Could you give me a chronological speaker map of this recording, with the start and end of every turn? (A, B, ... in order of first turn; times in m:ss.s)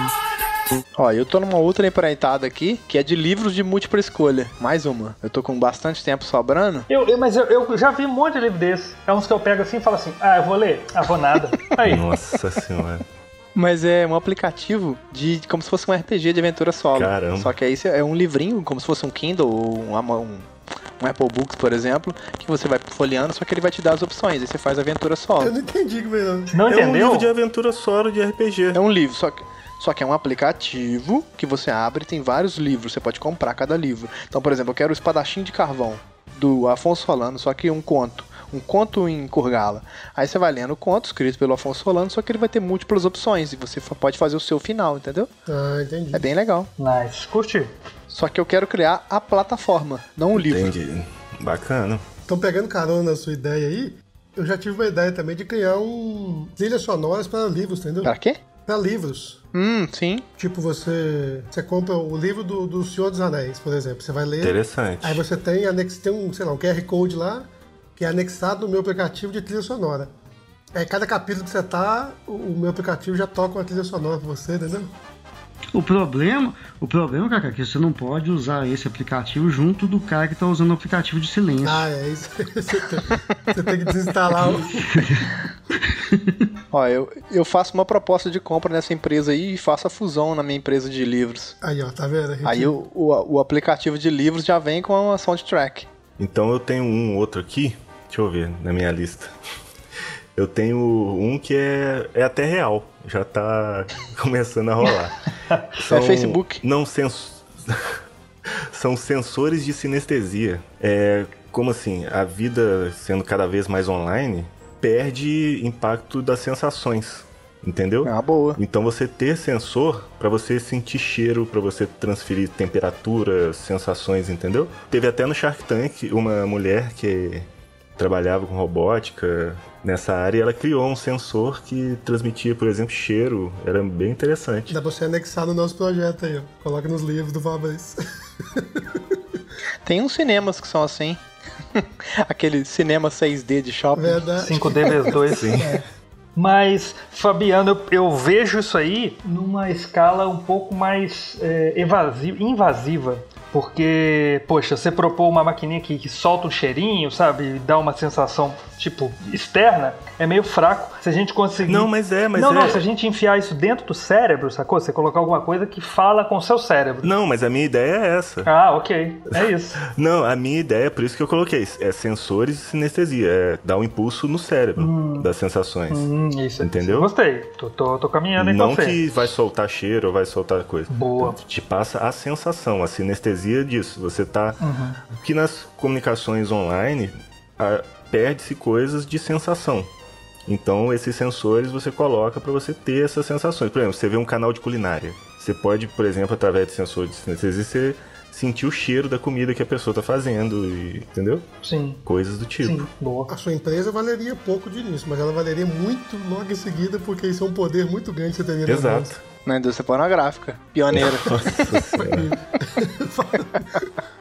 0:01.0-0:06.9 A
0:06.9-0:12.1 B
0:11.8-0:13.0 C
0:13.6-0:25.5 A
0:17.0-0:17.5 C
0:25.4-0:26.6 D
0:26.5-0:27.3 B
0:26.7-0:28.8 C
0:28.7-0:45.3 A
0:45.5-0:46.3 D
0:46.1-0:46.7 A
0:46.8-0:47.7 B
0:48.1-0:50.7 A
0:50.4-0:52.0 C
0:52.3-0:58.1 D
0:58.0-0:58.4 A
0:58.7-0:59.4 D
0:59.5-1:00.3 A
1:00.4-1:10.1 D
1:04.4-1:05.2 C
1:10.7-1:14.9 D
1:15.7-1:21.9 E
1:21.6-1:25.0 D
1:24.4-1:26.4 E
1:26.7-1:31.6 A
1:31.6-1:32.8 D
1:32.4-1:35.9 A
1:36.2-1:39.3 C
1:40.4-1:45.2 C
1:45.8-1:47.9 C
1:45.9-1:46.6 A
1:48.7-2:14.8 C
1:58.0-1:58.6 A
2:14.7-2:19.2 D
2:19.8-2:21.2 A
2:21.8-2:24.6 A
2:24.0-2:25.8 D
2:24.4-2:25.8 B
2:25.2-2:25.8 C
2:26.4-2:47.1 B
2:41.7-2:42.8 C
2:47.0-2:48.5 C
2:48.4-2:49.8 B
2:49.8-2:56.1 C
2:54.8-2:55.3 B
2:55.9-2:59.0 B
2:56.6-2:57.1 C
2:58.4-3:04.6 C
3:00.9-3:01.4 B
3:04.6-3:05.0 B
3:05.1-3:09.9 C
3:10.5-3:21.4 C
3:21.6-3:22.0 B
3:22.0-3:22.9 C
3:22.6-3:23.3 B
3:23.3-3:29.1 D
3:28.7-3:29.2 C
3:29.5-3:31.3 A
3:30.9-3:32.3 C
3:31.5-3:34.0 D